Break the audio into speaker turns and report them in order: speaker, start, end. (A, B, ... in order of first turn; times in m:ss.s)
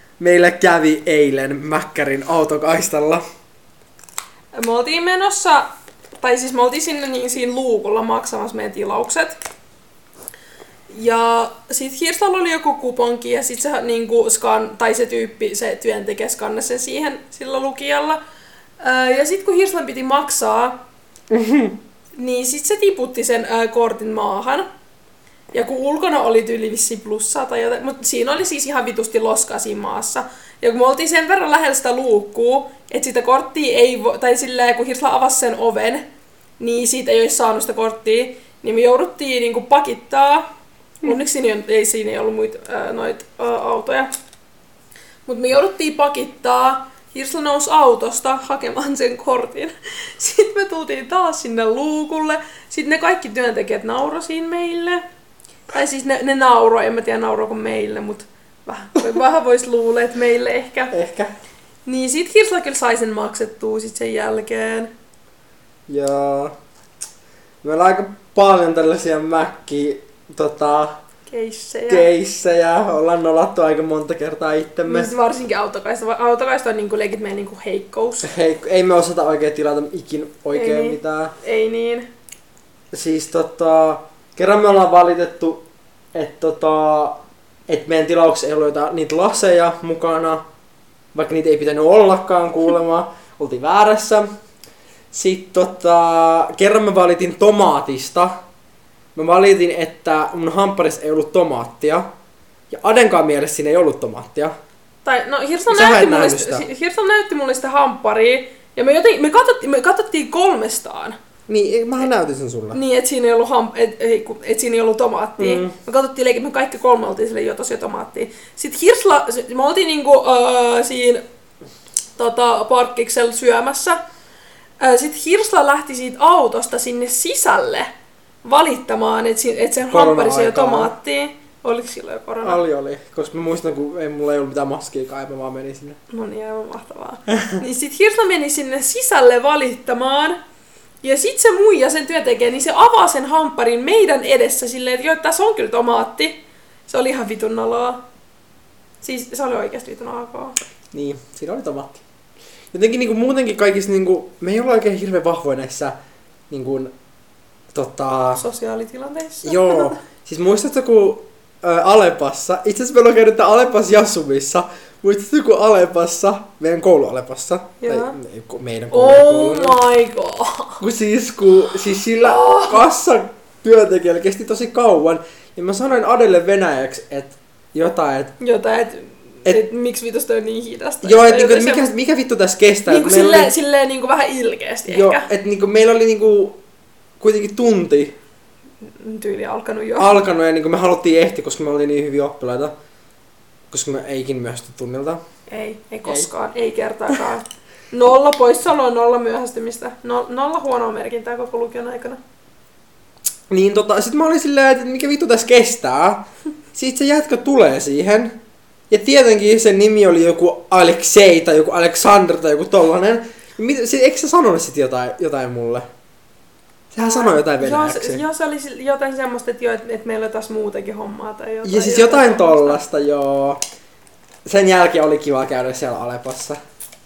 0:00.2-0:03.2 A
0:04.5-0:09.4 B
0:10.9-0:18.2 B
0:18.8-0:20.8 B
0:21.3-0:21.8 A
0:22.1-0:24.7 B
0:25.5-0:36.1 B
0:36.6-0:40.5 B
0:41.0-0:44.1 B
0:45.3-0:55.0 B
0:55.7-1:00.9 B
1:00.9-1:01.4 A
1:01.9-1:04.9 B
1:05.9-1:06.6 A
1:07.6-1:11.0 A
1:11.3-1:12.1 B
1:11.9-1:15.1 A
1:14.9-1:18.3 B
1:18.2-1:21.4 A
1:20.5-1:22.1 B
1:22.9-1:25.6 A
1:26.1-1:30.4 A
1:31.1-1:34.3 A
1:35.1-1:38.4 A
1:39.2-1:42.1 A
1:42.7-1:44.6 A
1:45.0-1:51.2 B
1:45.7-1:46.7 A
1:51.5-1:52.8 A
1:52.7-2:01.2 B
1:55.4-1:55.8 A
2:02.2-2:04.0 B
2:04.8-2:07.9 B
2:08.4-2:12.6 B
2:09.9-2:10.9 A
2:12.4-2:16.0 A
2:16.1-2:20.4 B
2:17.3-2:17.6 A
2:21.0-2:28.0 B
2:29.0-2:30.6 B
2:30.9-2:32.0 A
2:32.7-2:36.0 A
2:36.5-2:36.9 A
2:37.7-2:38.4 A
2:38.4-2:40.0 B
2:39.4-2:49.8 A
2:47.8-2:48.2 B
2:48.9-2:50.8 B
2:50.8-2:58.3 A
2:52.2-2:52.9 B
2:58.4-3:01.9 B
3:01.0-3:03.5 A
3:02.9-3:05.3 B
3:04.9-3:06.6 A
3:07.2-3:08.2 A
3:08.8-3:10.2 B
3:10.0-3:12.7 A
3:13.7-3:15.2 A
3:15.5-3:22.2 B
3:23.5-3:28.4 A
3:28.9-3:35.9 A
3:36.9-3:38.2 A
3:37.0-3:42.8 B
3:41.6-3:43.6 A
3:44.5-3:46.6 A